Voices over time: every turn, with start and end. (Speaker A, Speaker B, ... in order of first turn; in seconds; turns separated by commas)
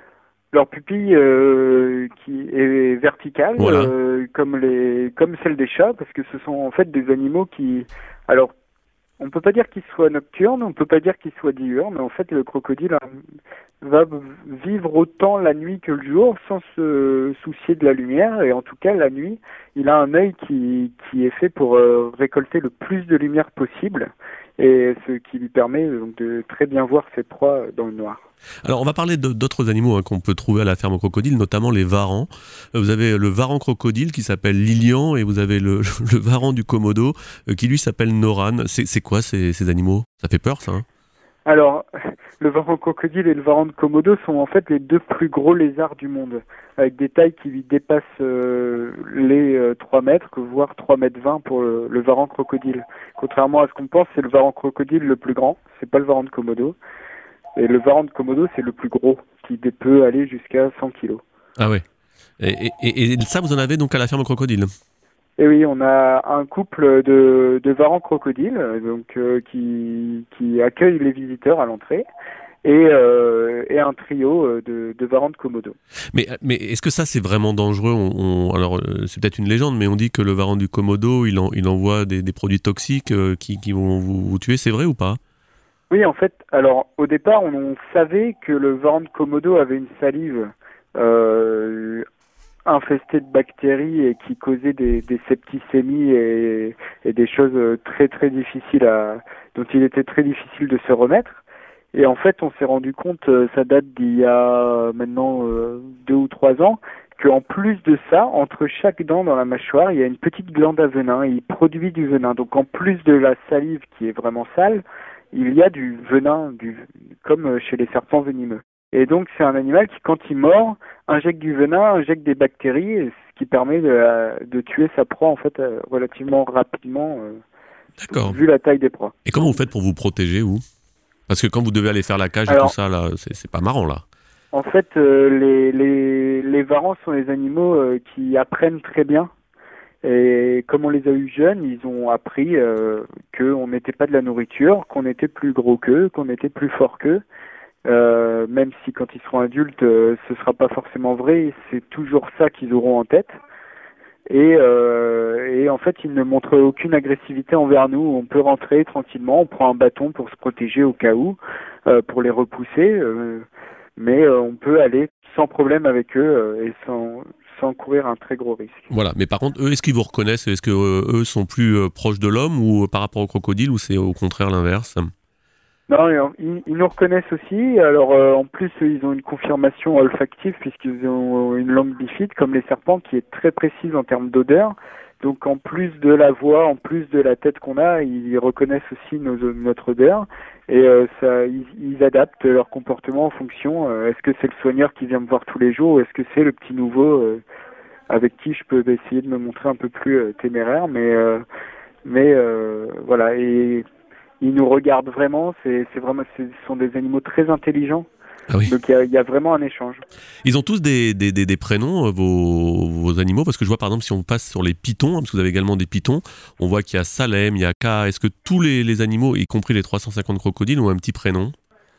Speaker A: 0.5-8.5, Speaker B: 3.6-3.9, Speaker A: 9.2-13.2, Speaker A: 13.8-28.2, Speaker B: 28.6-40.9, Speaker A: 41.5-56.8, Speaker A: 57.6-61.2, Speaker B: 61.6-61.8, Speaker B: 62.4-64.7, Speaker A: 65.4-72.0, Speaker A: 72.6-75.8, Speaker B: 76.1-85.2, Speaker A: 85.9-92.0, Speaker A: 92.7-101.4, Speaker A: 101.9-127.4, Speaker B: 128.0-128.4, Speaker A: 128.1-129.2, Speaker B: 129.3-130.6, Speaker B: 131.3-134.0, Speaker A: 132.5-132.7, Speaker A: 134.5-139.3, Speaker A: 140.0-147.2, Speaker A: 147.9-153.4, Speaker A: 154.3-163.4, Speaker A: 164.0-168.9, Speaker B: 168.9-175.1, Speaker A: 175.9-197.4, Speaker A: 198.1-201.4, Speaker A: 202.1-203.8, Speaker A: 204.4-208.1, Speaker A: 208.7-210.0, Speaker B: 210.4-221.5